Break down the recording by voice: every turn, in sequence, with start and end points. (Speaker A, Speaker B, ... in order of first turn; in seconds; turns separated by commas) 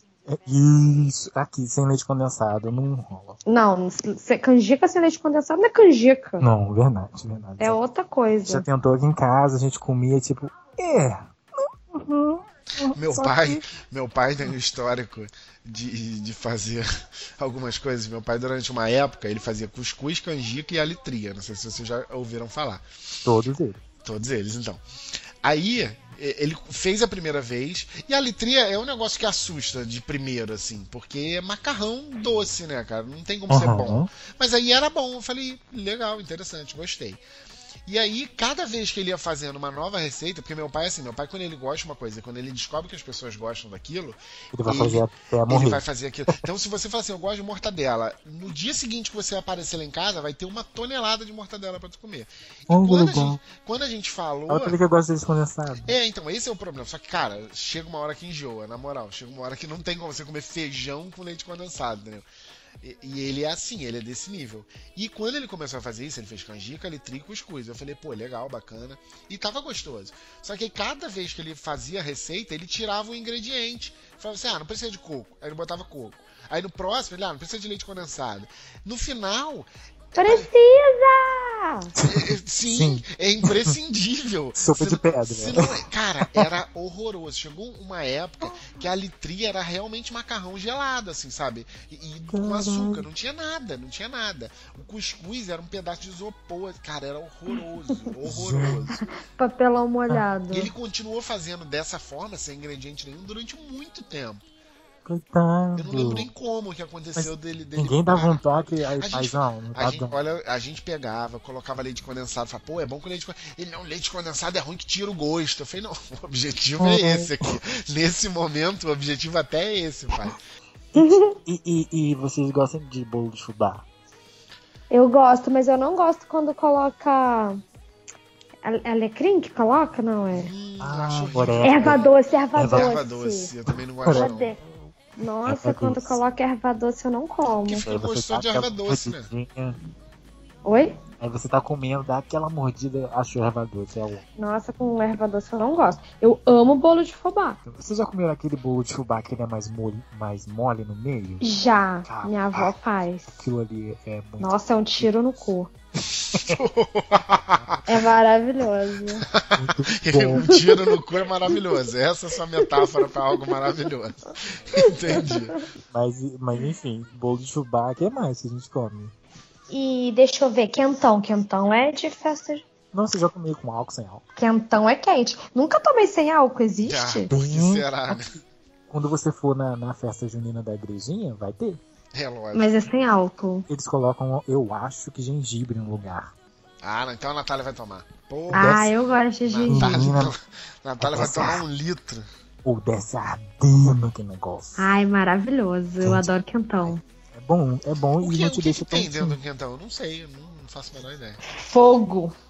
Speaker A: 0.3-3.4, Speaker B: 3.5-6.4, Speaker A: 6.4-7.8, Speaker B: 7.6-8.7, Speaker A: 8.4-13.6, Speaker C: 12.9-22.8, Speaker A: 23.2-23.8, Speaker C: 24.0-24.8, Speaker C: 25.4-37.2, Speaker A: 33.5-34.1, Speaker C: 37.9-54.8, Speaker A: 44.5-46.3, Speaker A: 52.7-53.4, Speaker A: 54.5-55.9, Speaker C: 55.9-62.2, Speaker C: 62.8-80.5, Speaker B: 80.2-81.9, Speaker A: 82.0-83.8, Speaker C: 82.0-99.0, Speaker A: 84.5-86.5, Speaker A: 92.3-93.0, Speaker A: 98.2-99.0, Speaker B: 99.3-100.7, Speaker C: 100.5-104.4, Speaker A: 105.0-106.3, Speaker C: 105.8-120.4, Speaker A: 107.2-110.2, Speaker A: 116.8-117.5, Speaker A: 120.9-123.8, Speaker B: 120.9-121.3, Speaker B: 124.9-127.6, Speaker B: 128.6-130.5, Speaker C: 130.3-134.6, Speaker A: 130.8-132.9, Speaker B: 131.6-133.5, Speaker A: 133.7-134.7, Speaker B: 134.1-134.6, Speaker B: 135.2-137.8, Speaker A: 135.4-136.2, Speaker C: 137.6-139.3, Speaker A: 137.8-139.8, Speaker B: 140.6-141.0, Speaker A: 141.2-144.2, Speaker B: 144.4-147.6, Speaker A: 147.6-151.4, Speaker B: 151.4-153.4, Speaker A: 152.1-152.7, Speaker A: 153.3-155.1, Speaker B: 154.4-155.7, Speaker C: 156.2-157.9, Speaker A: 156.3-156.6, Speaker B: 157.9-159.2, Speaker C: 159.3-165.5, Speaker A: 159.5-160.5, Speaker B: 160.3-160.9, Speaker B: 165.0-165.5, Speaker A: 165.9-169.1, Speaker B: 169.7-172.6, Speaker A: 172.9-174.2, Speaker B: 174.4-177.3, Speaker C: 176.8-178.3, Speaker A: 177.3-181.8, Speaker C: 182.1-182.7, Speaker B: 182.5-183.7, Speaker A: 183.7-186.3, Speaker C: 186.8-188.9, Speaker A: 188.5-188.9, Speaker B: 188.5-190.1, Speaker C: 189.4-192.2, Speaker A: 189.6-190.3, Speaker A: 191.0-191.6, Speaker A: 192.6-194.9, Speaker B: 194.8-197.0, Speaker A: 196.0-196.3, Speaker A: 197.3-199.4, Speaker C: 198.2-201.4, Speaker B: 201.5-202.3